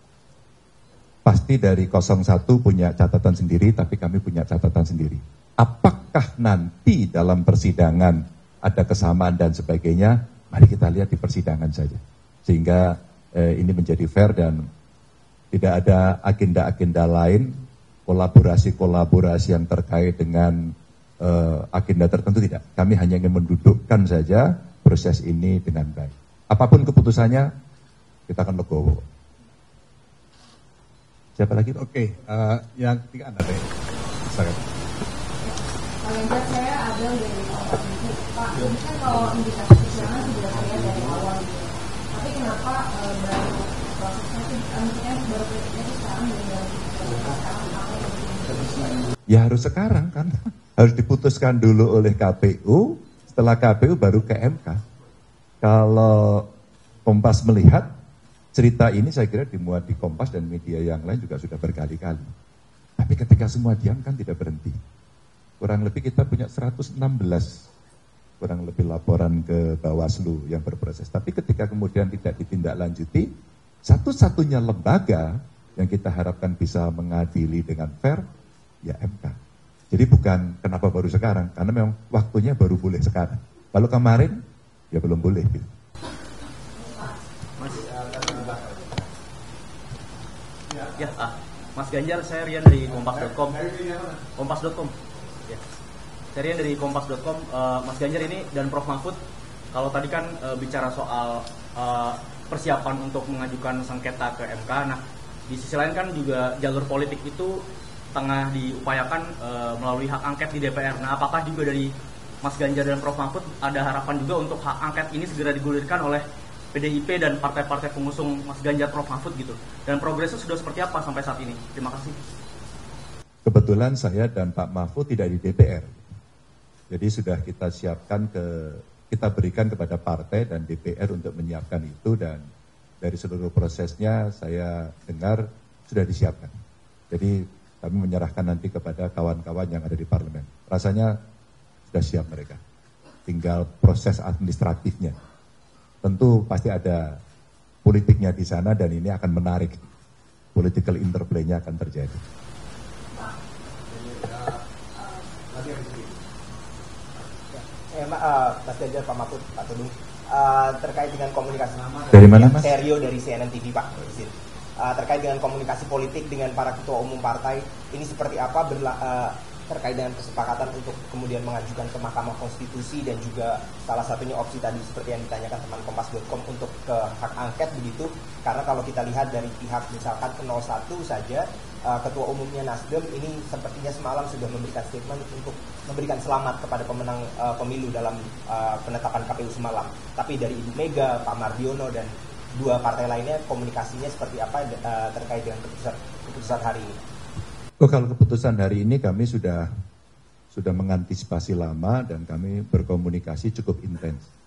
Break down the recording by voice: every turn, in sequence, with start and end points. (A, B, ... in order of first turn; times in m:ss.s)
0:01.2-0:14.6 A
0:15.5-0:17.5 A
0:18.1-0:27.5 A
0:28.3-0:29.0 A
0:31.4-0:31.8 A
0:31.8-0:33.6 B
0:34.3-0:34.6 B
0:35.4-0:49.1 C
0:49.3-0:54.8 A
0:55.6-0:56.4 A
0:57.0-0:57.9 A
0:58.5-1:02.3 A
1:03.0-1:04.8 A
1:05.6-1:07.6 A
1:08.4-1:13.3 A
1:13.8-1:18.2 A
1:18.8-1:19.4 A
1:19.9-1:24.4 A
1:24.9-1:25.7 A
1:27.6-1:28.1 D
1:28.1-1:28.6 B
1:31.0-1:33.6 D
1:33.1-1:34.2 B
1:34.4-1:34.9 D
1:36.3-1:39.2 D
1:39.7-1:47.6 D
1:48.1-1:51.9 D
1:52.4-2:02.2 D
2:03.4-2:06.0 A
2:06.9-2:12.4 A
2:13.0-2:16.6 A
2:17.1-2:21.1 A
2:21.9-2:22.6 A
2:23.3-2:25.2 A
2:26.0-2:27.2 A
2:27.8-2:29.8 A
2:30.5-2:32.2 A
2:35.0-2:36.0 C
2:37.5-3:17.0 E
2:42.1-2:42.7 A
3:17.8-3:19.7 A
3:20.5-3:24.3 A